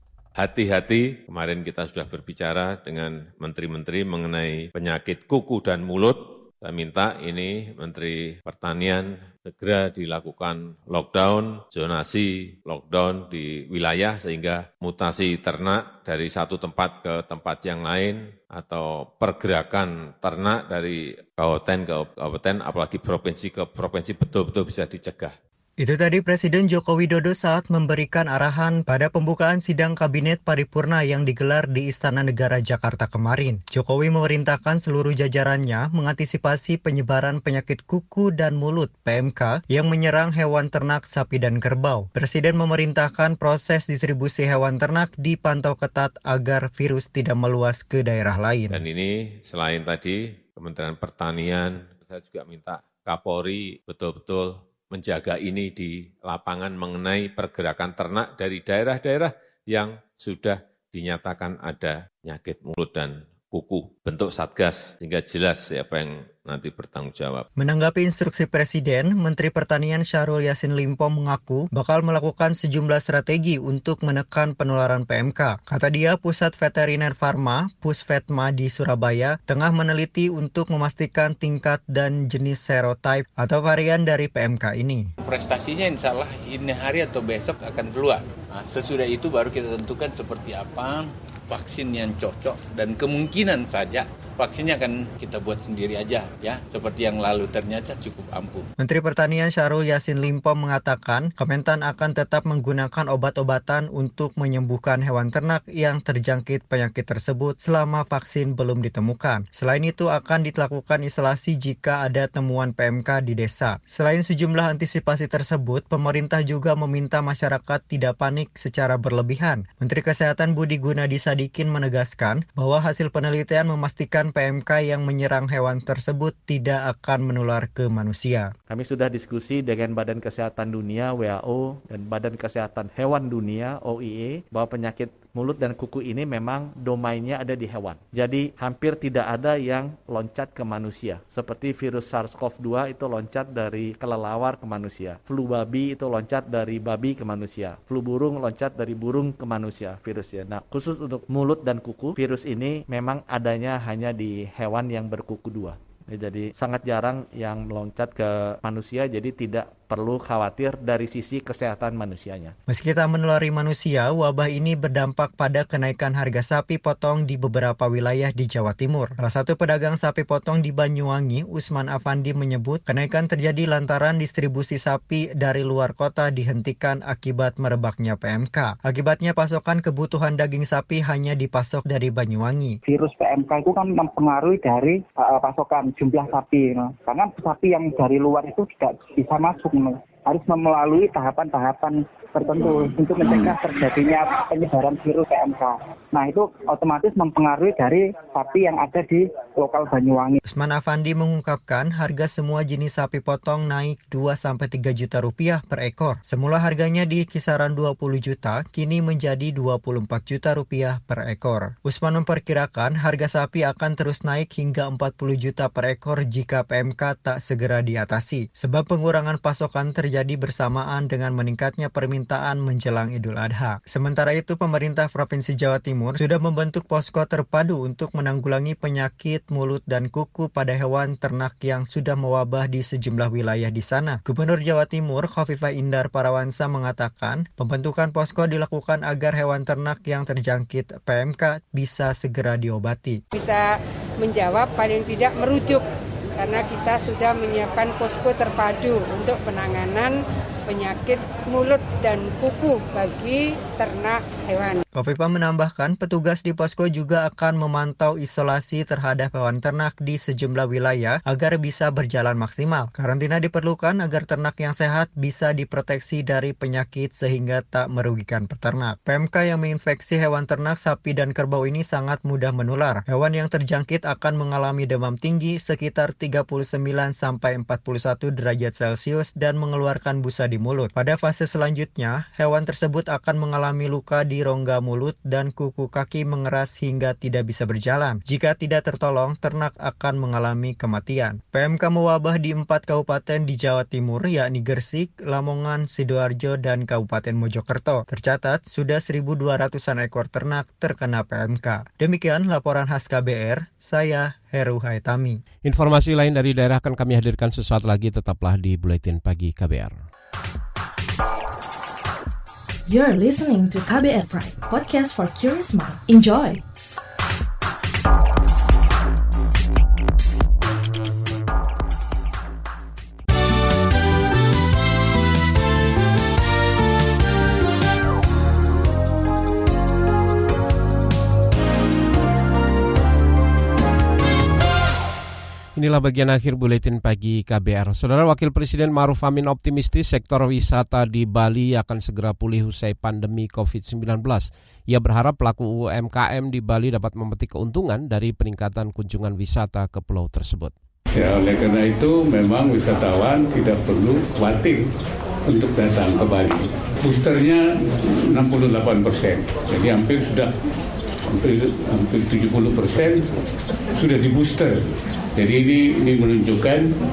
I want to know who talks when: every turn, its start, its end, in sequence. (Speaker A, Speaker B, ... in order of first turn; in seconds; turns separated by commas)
Speaker A: 0.4-25.3, Speaker B: 25.8-48.8, Speaker A: 48.7-67.5, Speaker B: 67.6-85.1, Speaker C: 85.2-98.7, Speaker B: 98.8-128.5, Speaker D: 128.7-162.5, Speaker B: 162.7-182.8, Speaker E: 182.9-200.4, Speaker B: 200.5-243.2, Speaker F: 243.3-243.6, Speaker F: 244.2-245.8, Speaker F: 246.4-250.1, Speaker F: 250.7-254.8, Speaker B: 254.9-305.4, Speaker G: 305.6-309.9, Speaker H: 312.9-316.6, Speaker G: 335.8-350.7, Speaker I: 351.2-354.8, Speaker I: 355.5-360.5, Speaker I: 361.3-363.2, Speaker I: 363.9-364.8, Speaker I: 365.4-366.9